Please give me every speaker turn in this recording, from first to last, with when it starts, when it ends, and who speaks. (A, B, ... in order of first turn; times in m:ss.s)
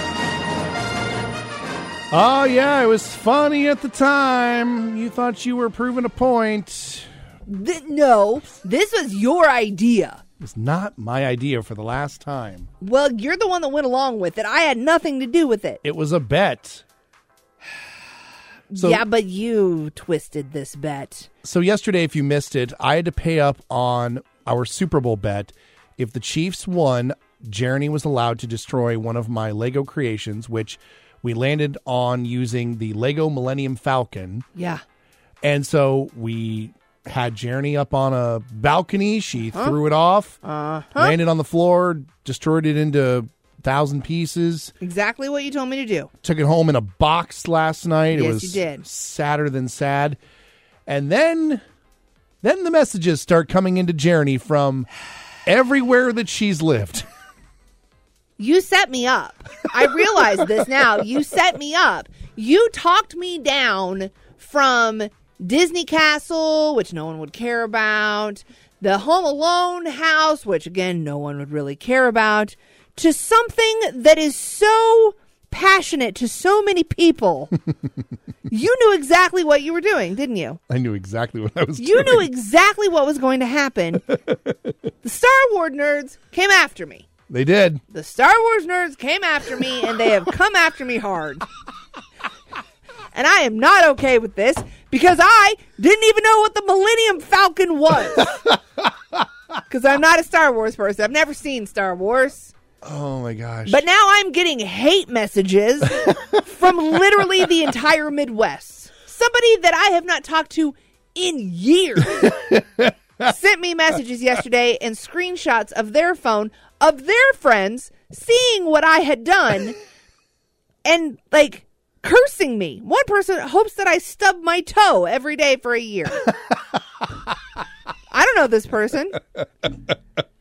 0:02.1-0:07.1 A
0:07.4-0:10.2 B
0:10.4-0:12.7 A
0:12.8-0:15.8 B
0:15.8-0:16.8 A
0:18.7-0:21.3 B
0:18.8-0:19.0 A
0:21.4-0:34.4 A
0:34.6-0:34.8 B
0:35.4-0:40.4 A
0:40.4-0:41.2 B
0:41.0-0:44.7 A
0:44.8-0:46.1 B
0:46.2-0:50.2 A
0:48.1-0:48.8 B
0:50.9-0:51.6 A
0:52.4-0:54.9 A
0:55.4-0:57.0 A
0:58.4-1:17.5 B
1:18.5-1:20.6 B
1:20.7-1:22.3 A
1:21.8-1:24.1 B
1:24.3-1:24.5 A
1:25.0-1:27.1 B
1:27.3-1:27.8 A
1:27.9-1:31.4 B
1:33.1-1:38.5 B
1:39.7-1:42.5 B
1:42.8-1:43.8 A
1:43.6-1:52.4 B
1:52.2-1:52.9 A
1:53.2-1:59.8 B
2:00.8-2:06.3 B
2:08.1-2:09.2 B